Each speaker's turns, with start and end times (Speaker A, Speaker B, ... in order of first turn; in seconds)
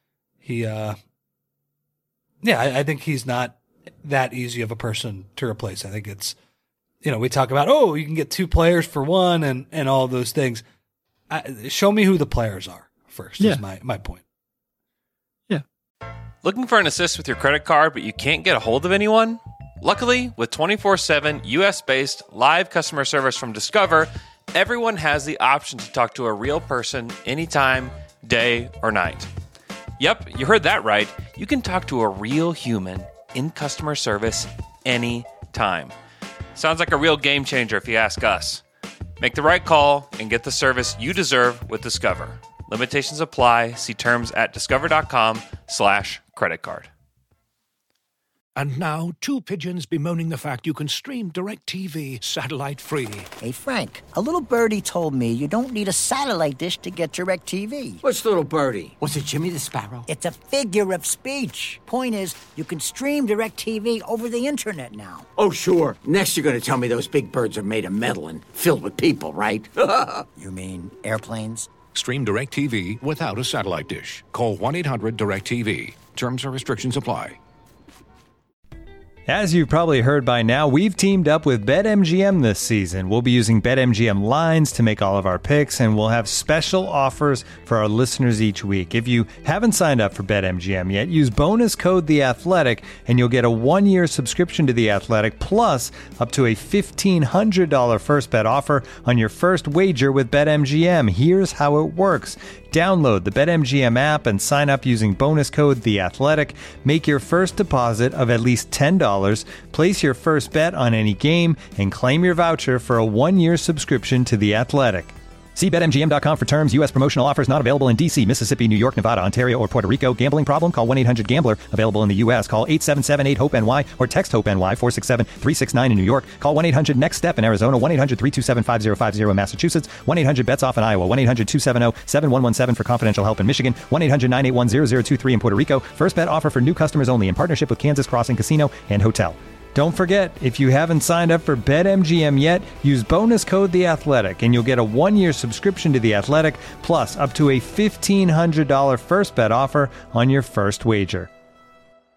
Speaker A: 0.4-1.0, 2.4-6.4, 7.0-10.6, 11.3-14.2
Speaker B: 16.4-29.3, 30.0-35.9, 36.5-38.6, 39.2-46.9
Speaker C: 48.5-53.3, 71.9-77.4
Speaker D: 53.4-58.0, 60.1-65.2, 70.4-71.7
Speaker E: 58.0-60.0, 65.4-70.3
Speaker F: 79.3-151.3